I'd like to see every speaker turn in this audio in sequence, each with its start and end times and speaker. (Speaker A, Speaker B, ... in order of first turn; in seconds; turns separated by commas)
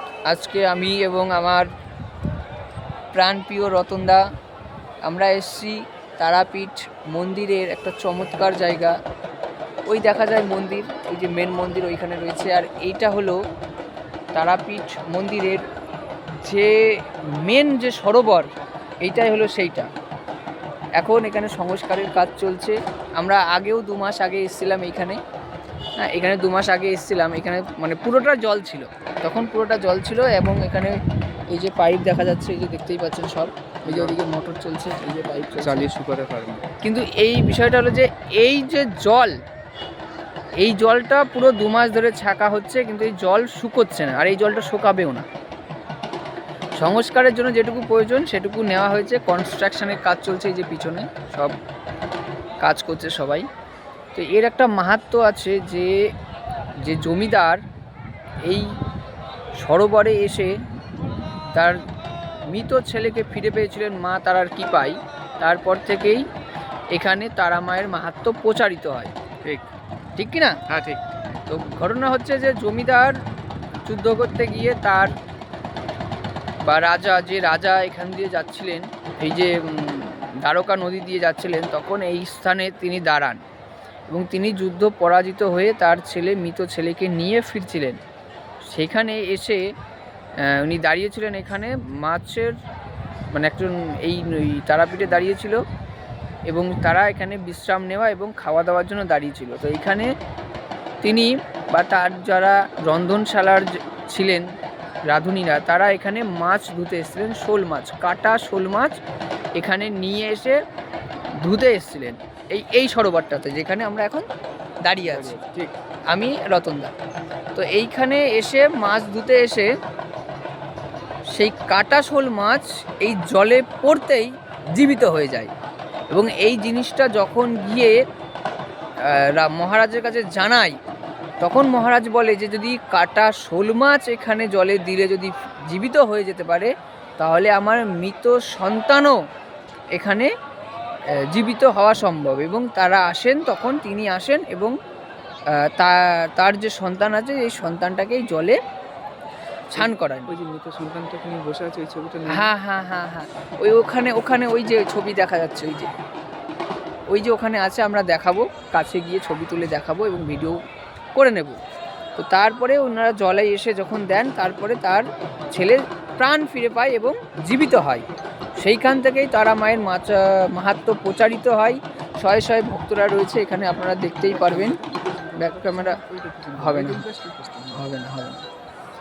Speaker A: 0.3-1.7, Speaker A: 3.1-4.2, Speaker A: 5.0-9.0, Speaker A: 9.9-13.4, Speaker A: 14.3-15.6, Speaker A: 16.4-18.5, Speaker A: 19.0-19.9, Speaker A: 21.0-25.2, Speaker A: 26.0-31.0, Speaker A: 31.5-35.9, Speaker B: 33.9-34.2, Speaker B: 35.6-36.7, Speaker A: 36.8-39.4, Speaker A: 40.6-45.3, Speaker A: 46.8-51.6, Speaker A: 52.6-53.5, Speaker A: 54.1-56.0, Speaker A: 56.8-57.6, Speaker A: 58.5-58.8, Speaker A: 59.6-60.5, Speaker A: 61.5-61.9, Speaker A: 62.5-66.2, Speaker A: 66.9-69.1, Speaker A: 70.2-70.7, Speaker B: 70.7-71.0, Speaker A: 71.5-73.2, Speaker A: 73.8-75.1, Speaker A: 76.7-83.4, Speaker A: 84.1-88.0, Speaker A: 88.7-89.6, Speaker A: 90.4-92.6, Speaker A: 93.3-95.6, Speaker A: 96.5-100.1, Speaker A: 101.0-104.5, Speaker A: 105.1-109.0, Speaker A: 109.6-110.6, Speaker A: 111.4-114.2, Speaker A: 114.8-115.4, Speaker B: 115.1-115.7, Speaker A: 116.1-116.9, Speaker A: 117.5-119.7, Speaker A: 121.3-125.5, Speaker A: 126.1-128.0, Speaker A: 129.0-130.8, Speaker A: 131.4-139.2, Speaker A: 139.9-140.3, Speaker A: 141.3-144.7, Speaker A: 145.5-148.6, Speaker A: 149.7-150.4, Speaker B: 149.8-152.5, Speaker A: 152.3-155.9, Speaker A: 157.1-160.6, Speaker A: 161.2-161.6, Speaker A: 162.2-168.1, Speaker A: 168.6-174.8, Speaker B: 174.2-177.8, Speaker A: 175.4-176.0, Speaker A: 176.6-177.1, Speaker A: 177.7-178.4